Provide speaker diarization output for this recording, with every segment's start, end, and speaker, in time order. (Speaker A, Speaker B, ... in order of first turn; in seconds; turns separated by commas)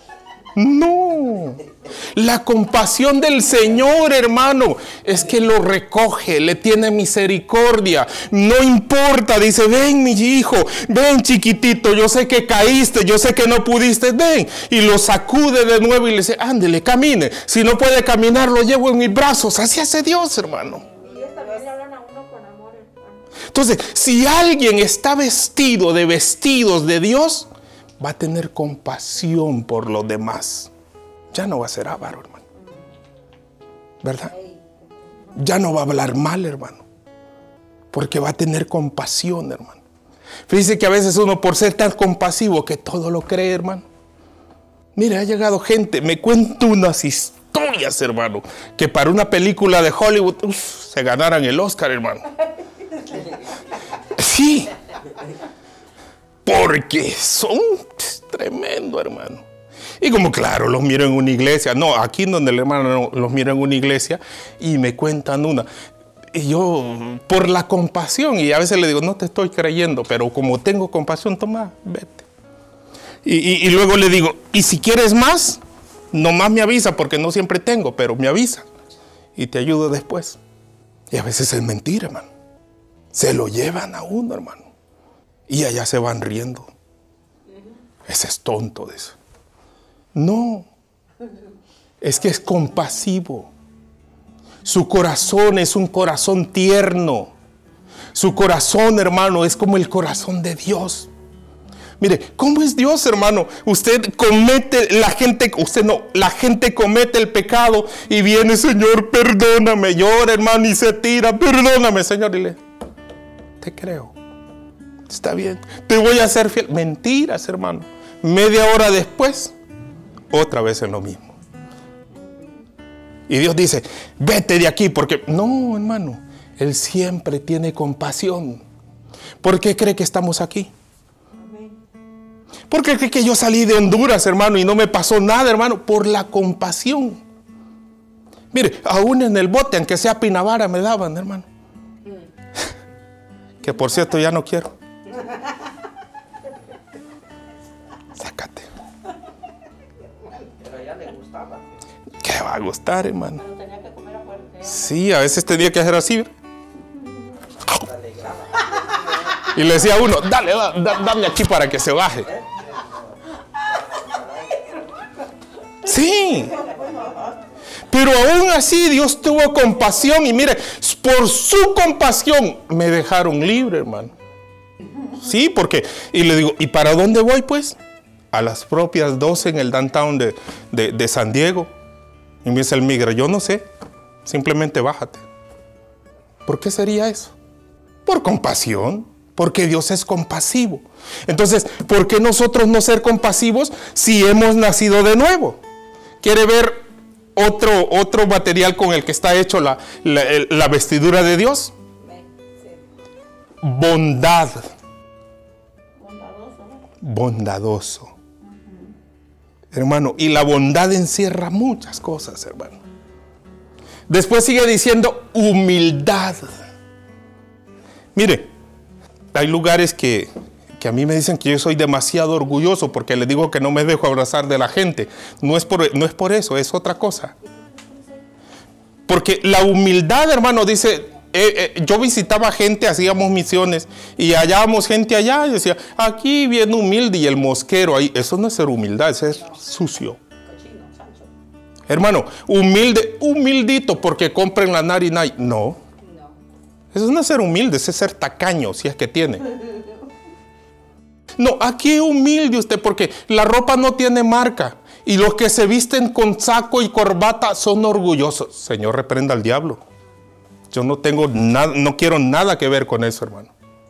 Speaker A: 0.5-20.8, Speaker B: 20.8-23.2, Speaker A: 23.5-27.5, Speaker A: 28.0-30.7, Speaker A: 31.3-32.4, Speaker A: 34.0-34.3, Speaker B: 34.3-34.9, Speaker A: 35.3-36.8, Speaker A: 37.9-39.8, Speaker A: 40.5-43.8, Speaker A: 44.9-52.2, Speaker A: 54.1-54.7, Speaker A: 56.5-59.4, Speaker A: 60.0-65.7, Speaker A: 66.3-72.2, Speaker A: 73.2-75.6, Speaker A: 76.1-78.7, Speaker A: 79.3-80.4, Speaker A: 81.1-82.2, Speaker A: 83.1-84.7, Speaker A: 85.5-86.7, Speaker A: 88.0-89.2, Speaker A: 90.1-90.7, Speaker A: 92.0-93.5, Speaker A: 94.6-97.3, Speaker A: 98.1-101.1, Speaker A: 102.0-112.6, Speaker A: 113.6-114.1, Speaker A: 115.1-119.5, Speaker A: 120.3-121.3, Speaker A: 123.3-128.6, Speaker A: 129.4-130.7, Speaker B: 131.4-131.7, Speaker A: 132.7-137.2, Speaker A: 138.5-141.5, Speaker A: 143.6-144.7, Speaker A: 148.1-148.7, Speaker C: 150.6-151.7, Speaker A: 152.2-153.4, Speaker B: 153.4-154.9, Speaker A: 154.6-156.3, Speaker C: 157.8-159.4, Speaker A: 159.4-162.3, Speaker A: 165.8-166.6, Speaker C: 166.5-167.3, Speaker B: 166.6-166.9, Speaker A: 167.9-174.1, Speaker A: 175.2-177.8, Speaker A: 178.3-181.7, Speaker A: 182.4-183.7, Speaker A: 184.2-185.2, Speaker A: 186.4-187.3, Speaker A: 188.1-195.6, Speaker A: 196.2-196.8, Speaker A: 197.3-201.7, Speaker B: 202.0-202.8, Speaker A: 203.6-204.7, Speaker B: 206.0-206.8, Speaker A: 207.0-208.1, Speaker A: 209.7-212.8, Speaker A: 214.1-216.6, Speaker A: 218.1-218.5, Speaker A: 219.3-227.3, Speaker B: 227.6-228.0, Speaker A: 229.1-240.2, Speaker B: 240.4-241.3, Speaker A: 241.9-245.8, Speaker B: 246.0-246.3, Speaker A: 246.9-249.5, Speaker A: 251.4-259.8, Speaker A: 260.7-263.5